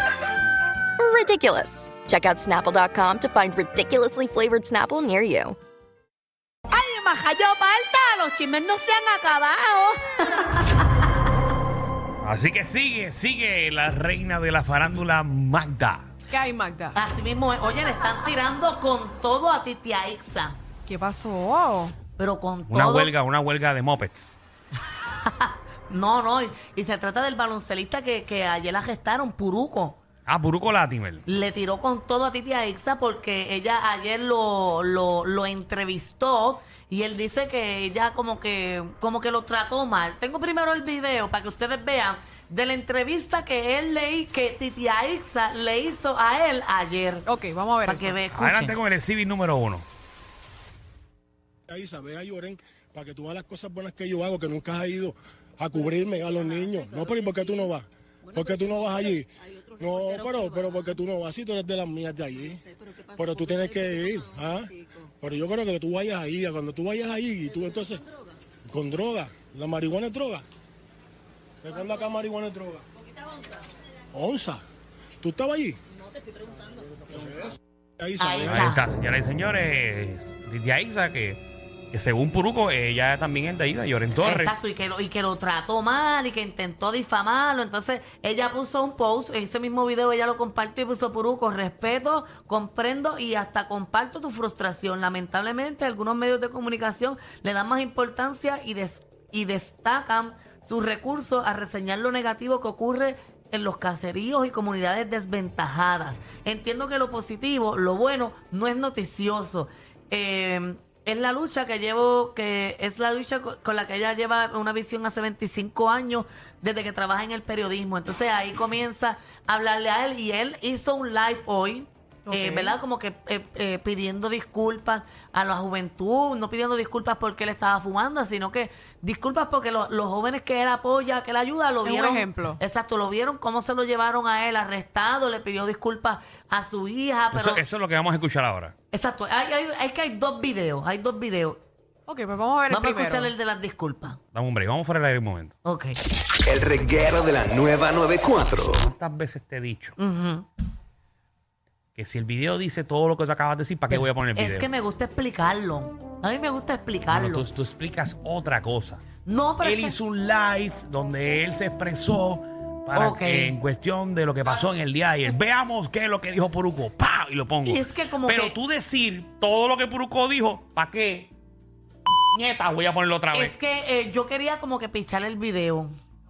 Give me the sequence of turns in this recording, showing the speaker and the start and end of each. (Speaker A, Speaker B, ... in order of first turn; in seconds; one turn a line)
Speaker A: 1.0-5.5
Speaker B: 6.7-10.9
Speaker C: 12.2-16.1
Speaker D: 16.3-17.0
Speaker B: 16.9-20.6
Speaker D: 20.9-21.9
Speaker B: 22.2-23.1
Speaker C: 22.7-24.4
Speaker B: 25.0-30.0
Speaker C: 30.3-31.2
Speaker B: 31.3-47.3
Speaker D: 47.3-48.2
Speaker B: 47.8-48.8
Speaker C: 48.4-49.9
Speaker E: 51.7-68.0
Speaker E: 68.7-70.4
Speaker E: 71.6-72.8
Speaker E: 74.1-74.6
Speaker E: 75.2-75.8
Speaker E: 77.0-78.7
Speaker B: 78.2-78.8
Speaker C: 78.4-81.4
Speaker C: 81.9-84.7
Speaker B: 84.2-137.6
Speaker D: 122.3-122.8
Speaker D: 131.8-132.6
Speaker C: 137.3-138.8
Speaker B: 138.9-141.6
Speaker D: 142.1-143.3
Speaker B: 142.7-144.2
Speaker C: 144.3-145.6
Speaker B: 145.6-145.9
Speaker F: 146.4-148.9
Speaker C: 148.7-149.9
Speaker B: 150.0-150.5
Speaker C: 151.9-154.7
Speaker B: 153.9-157.4
Speaker C: 157.1-159.0
Speaker B: 159.2-160.0
Speaker C: 159.6-171.3
Speaker B: 162.9-163.6
Speaker B: 167.6-168.6
Speaker C: 172.3-173.6
Speaker B: 173.3-175.9